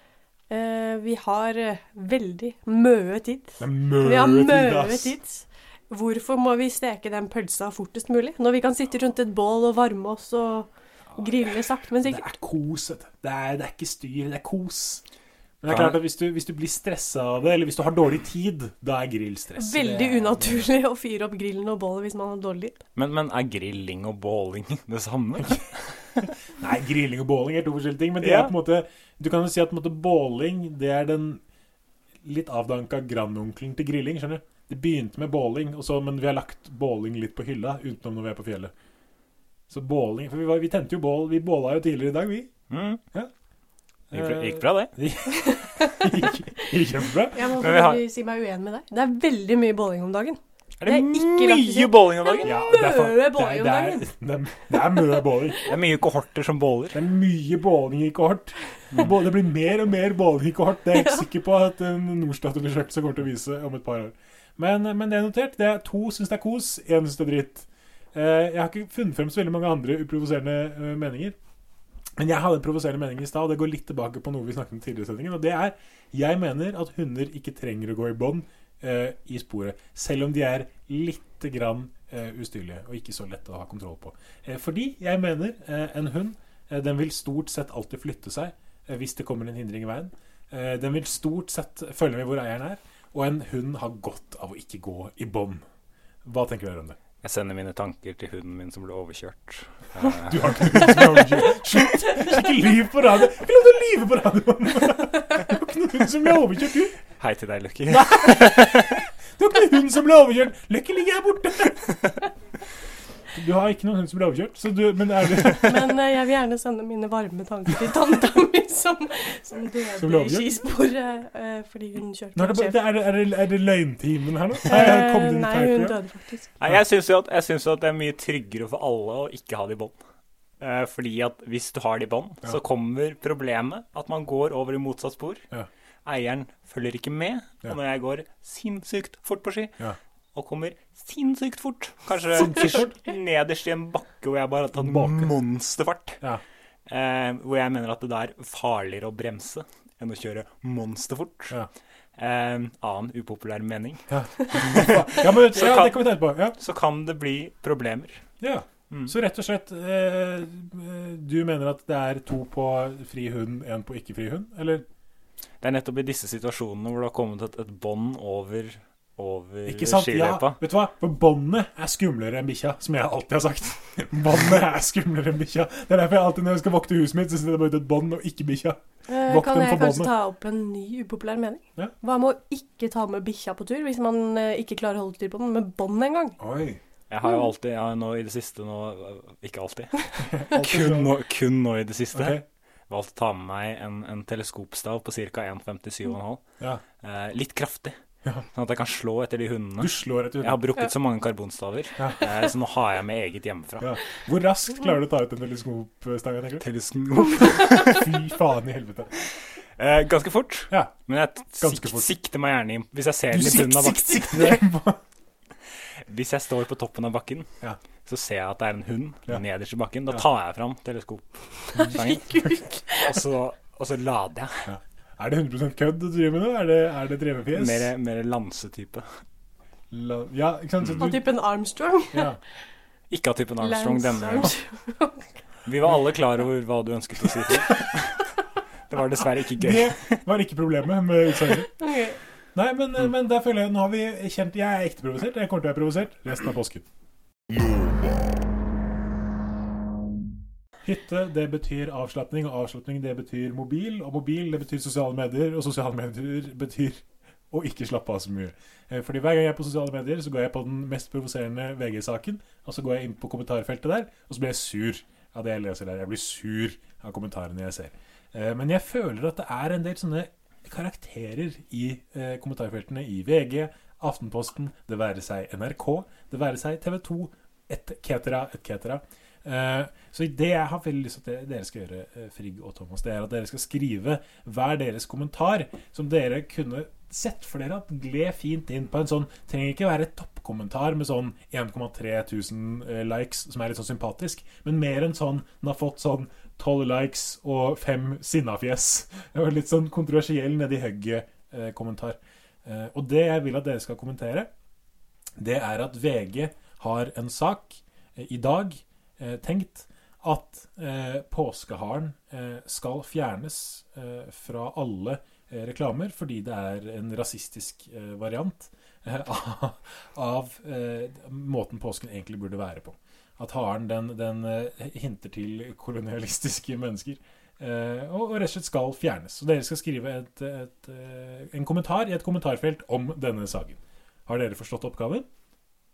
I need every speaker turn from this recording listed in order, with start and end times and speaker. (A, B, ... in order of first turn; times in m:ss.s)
0:00.5-0:12.3 A
0:03.6-0:05.1 B
0:12.0-0:15.0 B
0:15.6-0:20.7 B
0:15.6-0:16.0 C
0:19.6-0:22.8 A
0:23.0-0:26.3 C
0:26.6-0:31.4 B
0:28.2-0:28.5 C
0:32.2-0:38.7 B
0:39.7-0:42.5 B
0:42.7-0:43.0 C
0:44.1-0:47.6 B
0:44.1-0:44.9 C
0:45.4-0:46.1 A
0:47.3-0:54.0 A
0:47.6-0:48.0 C
0:50.8-0:52.6 C
0:52.4-0:55.7 B
0:55.6-0:57.0 C
0:56.9-1:11.4 B
1:12.2-1:35.6 B
1:36.2-1:37.0 B
1:37.2-1:41.4 C
1:40.0-1:47.0 B
1:47.2-1:49.0 C
1:47.9-1:52.0 B
1:53.3-1:56.0 B
1:55.6-2:02.8 A
2:00.0-2:00.5 B
2:02.4-2:06.0 B
2:04.6-2:06.5 A
2:06.6-2:09.9 C
2:10.6-2:15.4 C
2:16.0-2:19.8 C
2:20.3-2:26.2 C
2:22.3-2:22.9 B
2:24.7-2:25.3 B
2:26.9-2:31.6 C
2:32.2-2:38.2 C
2:34.1-2:36.6 B
2:38.4-2:44.8 B
2:38.9-2:39.1 C
2:45.6-2:50.6 C
2:49.6-3:00.1 B
2:59.1-3:06.4 A
3:06.4-3:06.8 B
3:07.1-3:16.4 C
3:10.3-3:11.1 B
3:12.1-3:12.4 B
3:17.0-3:18.0 C
3:18.5-3:23.9 C
3:19.8-3:20.6 B
3:22.0-3:22.3 B
3:23.8-3:26.6 B
3:26.6-3:28.1 C
3:27.3-3:29.1 B
3:29.8-3:34.6 C
3:30.7-3:31.0 B
3:31.6-3:32.1 B
3:33.3-3:35.0 B
3:36.1-3:37.5 C
3:38.0-3:44.7 C
3:42.3-3:43.0 A
3:44.6-3:47.9 B
3:47.5-3:49.2 C
3:49.9-3:51.2 B
3:51.0-3:52.3 A
3:52.1-3:52.4 B
3:53.1-3:54.5 C
3:53.6-3:55.2 A
3:55.6-3:58.3 C
3:58.9-4:00.2 C
3:59.6-4:01.7 B
4:01.8-4:02.2 A
4:02.5-4:06.8 B
4:10.8-5:04.5 B
5:05.4-5:35.3 B